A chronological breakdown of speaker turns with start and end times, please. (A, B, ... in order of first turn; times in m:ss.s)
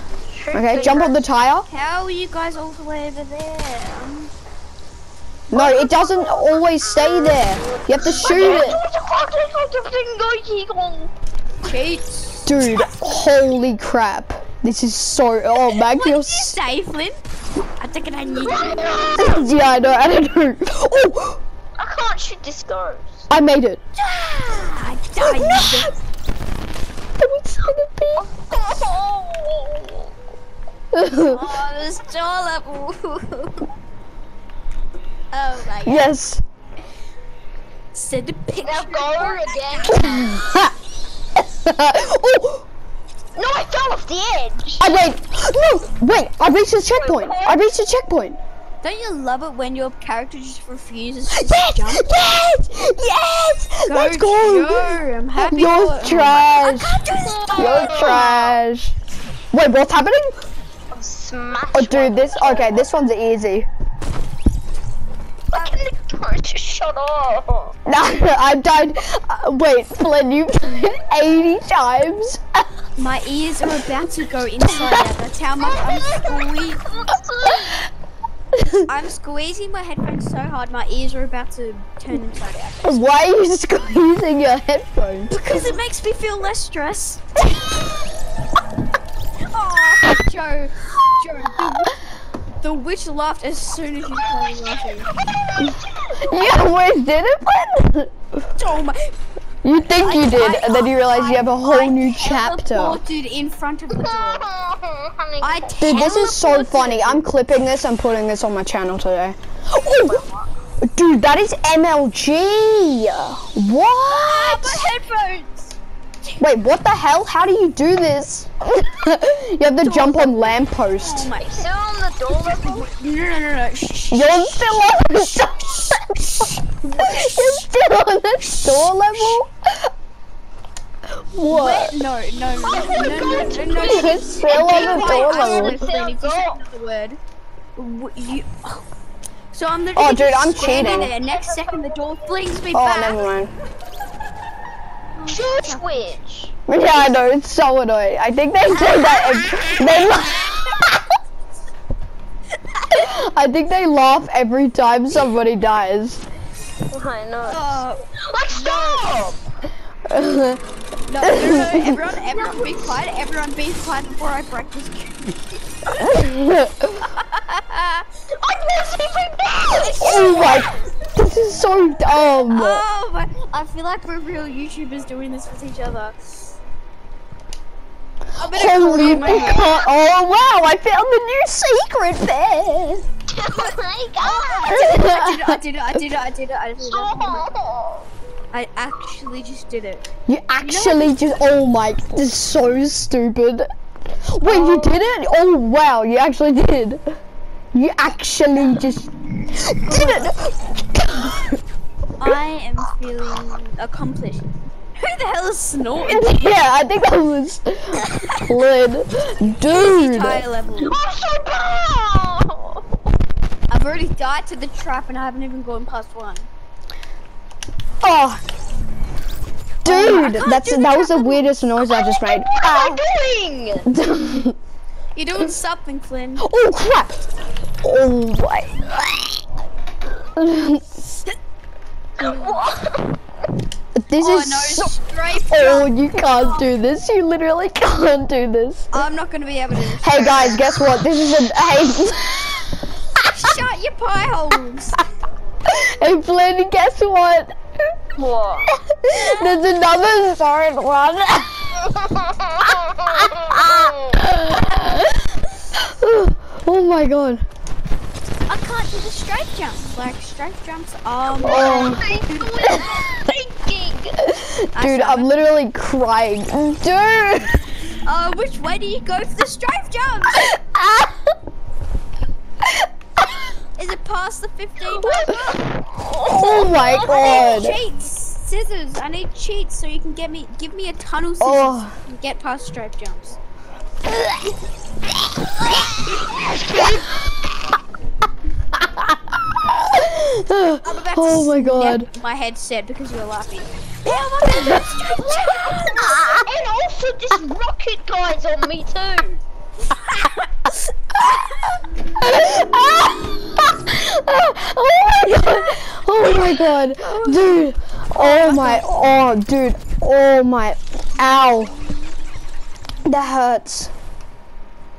0:00.3-0:01.2 A
0:00.5-0:01.7 B
0:01.7-0:04.3 C
0:05.5-0:08.8 B
0:05.5-0:11.1 A
0:08.2-0:08.8 C
0:11.6-0:12.6 C
0:12.5-0:16.6 B
0:15.8-0:17.2 C
0:17.8-0:19.2 C
0:18.5-0:19.5 A
0:19.2-0:21.4 B
0:21.8-0:23.2 A
0:23.3-0:23.8 B
0:24.0-0:25.9 C
0:25.2-0:25.9 B
0:27.2-0:28.3 B
0:28.2-0:30.1 A
0:30.9-0:31.4 B
0:31.2-0:33.6 C
0:35.3-0:36.1 C
0:35.9-0:36.4 B
0:37.9-0:40.6 C
0:38.6-0:40.1 A
0:39.9-0:40.7 B
0:41.4-0:42.7 B
0:43.4-0:44.9 A
0:44.8-0:48.4 B
0:46.9-0:47.7 A
0:48.8-0:52.4 C
0:51.3-0:57.0 B
0:53.9-0:58.4 C
0:57.1-0:58.6 A
0:57.5-0:58.9 B
0:59.5-1:00.3 B
1:00.9-1:02.9 A
1:01.7-1:03.7 B
1:05.5-1:07.8 A
1:07.9-1:12.6 B
1:13.0-1:16.8 C
1:14.7-1:15.0 B
1:15.8-1:17.8 A
1:18.9-1:23.0 C
1:22.8-1:25.7 B
1:25.3-1:27.2 C
1:29.4-1:32.0 C
1:32.6-1:35.1 C
1:35.2-1:36.3 A
1:35.6-1:38.2 B
1:38.6-1:39.1 C
1:39.6-1:43.0 B
1:39.8-1:44.5 C
1:43.9-1:46.2 A
1:45.4-1:47.3 C
1:45.8-1:50.2 B
1:50.0-1:50.5 A
1:50.8-1:54.9 B
1:54.1-1:55.8 C
1:56.4-2:01.3 B
1:59.7-2:01.7 C
2:01.4-2:02.9 A
2:02.3-2:04.8 C
2:04.1-2:09.9 B
2:06.8-2:07.6 C
2:08.6-2:09.4 C
2:11.3-2:12.0 B
2:11.5-2:17.2 C
2:12.7-2:16.6 A
2:13.8-2:15.8 B
2:17.8-2:18.8 C
2:19.5-2:23.3 C
2:20.0-2:21.1 B
2:20.6-2:22.2 A
2:22.7-2:23.5 B
2:25.2-2:26.2 C
2:25.3-2:26.5 A
2:26.7-2:31.0 B
2:28.9-2:29.8 C
2:32.9-2:36.2 B
2:36.9-2:39.4 A
2:37.5-2:39.0 C
2:40.1-2:40.6 B
2:41.1-2:45.4 C
2:41.2-2:42.2 B
2:42.3-2:43.0 A
2:46.0-2:47.1 B
2:47.2-2:48.0 C
2:48.4-2:50.7 A
2:49.8-2:50.9 C
2:49.8-2:52.8 B
2:52.5-2:56.2 C
2:58.4-2:59.7 C
2:58.5-3:03.0 B
2:59.3-2:59.8 A
3:03.3-3:04.8 A
3:03.5-3:07.5 C
3:04.5-3:05.6 B
3:06.8-3:08.1 A
3:08.5-3:10.1 C
3:10.3-3:13.7 B
3:10.6-3:11.1 C
3:14.3-3:17.0 B
3:14.4-3:15.1 A
3:17.7-3:19.1 B
3:19.7-3:21.6 B
3:19.8-3:20.3 C
3:22.2-3:26.6 C
3:26.0-3:30.5 B
3:28.0-3:28.4 C
3:29.7-3:31.0 C
3:30.8-3:32.8 A
3:33.7-3:36.5 C
3:38.0-3:38.4 B
3:39.8-3:43.0 B
3:39.8-3:41.5 C
3:41.8-3:43.9 A
3:43.9-3:44.6 B
3:45.2-3:46.4 C
3:46.4-3:47.2 B
3:47.8-3:49.4 B
3:50.4-3:50.8 B
3:52.2-3:53.2 A
3:54.0-3:59.0 B
3:54.2-3:56.7 C
3:58.9-4:00.8 C
4:00.0-4:02.7 B
4:03.2-4:05.0 C
4:05.7-4:07.5 B
4:08.2-4:08.7 A
4:08.7-4:11.8 B
4:09.1-4:09.7 C
4:11.9-4:14.2 A
4:13.1-4:17.4 B
4:18.5-4:22.5 C
4:21.4-4:22.1 B
4:21.4-4:24.2 A
4:24.3-4:27.5 B
4:24.7-4:25.3 C
4:28.0-4:30.5 C
4:30.4-4:31.2 B
4:33.8-4:35.4 C
4:35.0-4:36.7 A
4:36.2-4:37.8 B
4:36.7-4:43.4 C
4:41.4-4:42.0 B
4:46.4-4:46.8 B
4:48.8-4:52.1 B
4:50.8-4:56.3 C
4:54.4-4:54.8 B
4:55.2-4:59.4 A
4:55.9-4:56.5 B
4:59.9-5:01.7 C
5:02.2-5:11.8 B
5:06.7-5:07.6 C
5:08.2-5:09.1 C
5:13.0-5:13.9 B